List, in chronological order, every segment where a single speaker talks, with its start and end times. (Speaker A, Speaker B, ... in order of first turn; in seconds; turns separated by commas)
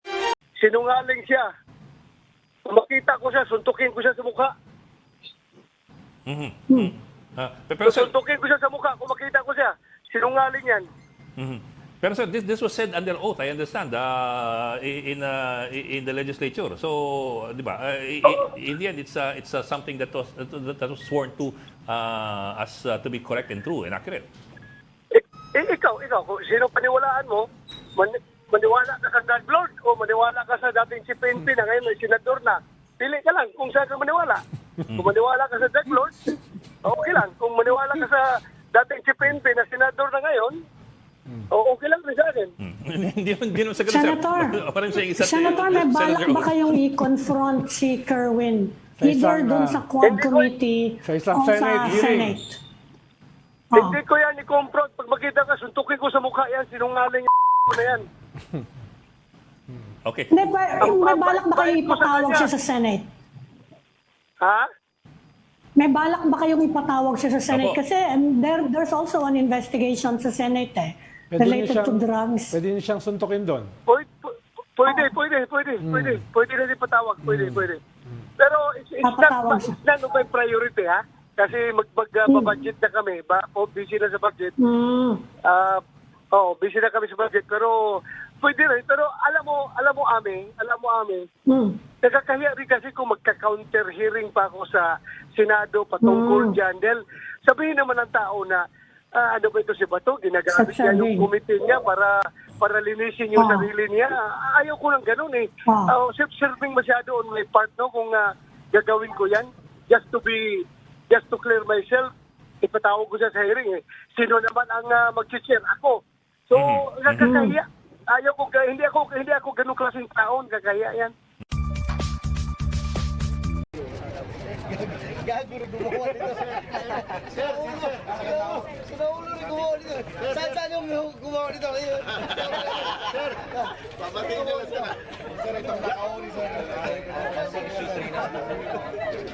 Speaker A: 0.6-1.4, Speaker A: 2.7-4.5, Speaker B: 6.3-8.1, Speaker A: 7.8-10.9, Speaker B: 11.4-24.3, Speaker A: 25.1-27.5, Speaker A: 28.0-34.4, Speaker A: 35.0-36.2, Speaker A: 36.8-40.6, Speaker A: 41.5-42.5, Speaker B: 42.6-46.9, Speaker C: 43.8-52.6, Speaker D: 49.0-49.8, Speaker A: 50.0-50.5, Speaker D: 51.0-52.4, Speaker C: 53.7-54.0, Speaker A: 53.8-58.1, Speaker B: 60.0-60.3, Speaker C: 60.3-63.1, Speaker A: 60.8-62.5, Speaker A: 64.4-64.7, Speaker C: 65.8-72.6, Speaker B: 67.5-67.8, Speaker D: 71.3-73.7, Speaker A: 73.9-77.8, Speaker C: 74.9-75.1, Speaker D: 75.8-76.2, Speaker D: 77.2-77.7, Speaker A: 78.4-84.5, Speaker C: 79.0-79.8, Speaker C: 82.3-82.6, Speaker C: 84.6-85.2, Speaker A: 85.5-85.8, Speaker A: 86.3-87.8, Speaker A: 88.4-91.3, Speaker C: 91.5-91.8, Speaker A: 92.0-98.6, Speaker C: 96.0-96.6, Speaker A: 99.2-108.2, Speaker C: 100.5-101.3, Speaker C: 103.3-103.7, Speaker C: 105.7-105.9, Speaker A: 108.7-110.5, Speaker A: 111.1-112.1, Speaker A: 112.6-121.1, Speaker B: 116.5-117.5, Speaker C: 117.2-117.6, Speaker E: 125.5-126.6, Speaker E: 127.4-135.0, Speaker E: 135.6-138.3